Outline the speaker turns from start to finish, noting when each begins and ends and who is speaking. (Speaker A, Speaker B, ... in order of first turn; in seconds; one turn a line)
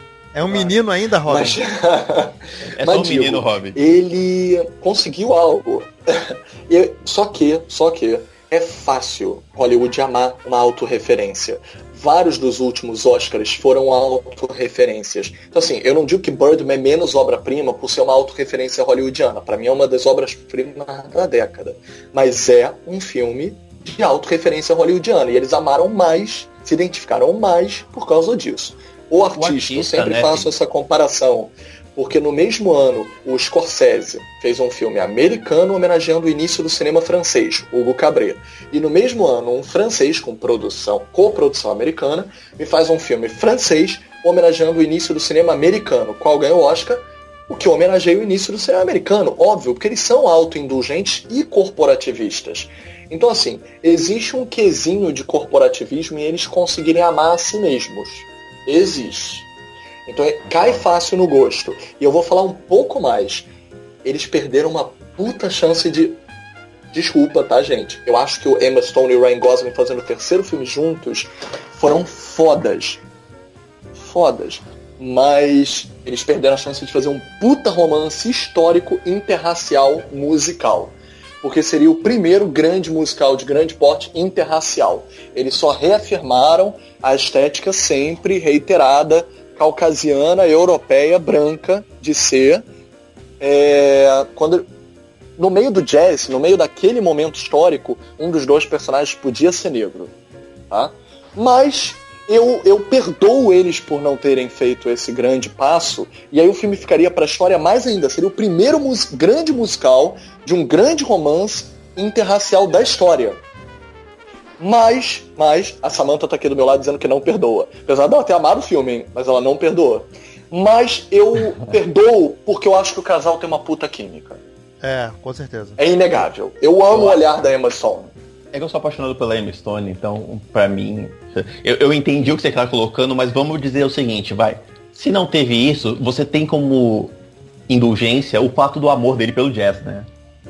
Speaker A: 0.3-1.6
Speaker B: 0.4-0.7
Speaker B: 1.3-59.5
Speaker C: 2.7-3.8
Speaker C: 29.4-30.5
Speaker B: 60.1-63.5
Speaker B: 64.0-66.2
Speaker B: 66.9-73.0
Speaker B: 73.9-92.6
Speaker B: 93.4-94.7
Speaker B: 95.4-100.1
Speaker B: 100.7-113.4
Speaker B: 114.6-124.4
Speaker A: 124.8-125.8
Speaker B: 125.8-128.1
Speaker C: 126.9-127.2
Speaker C: 128.5-137.1
Speaker C: 137.7-140.1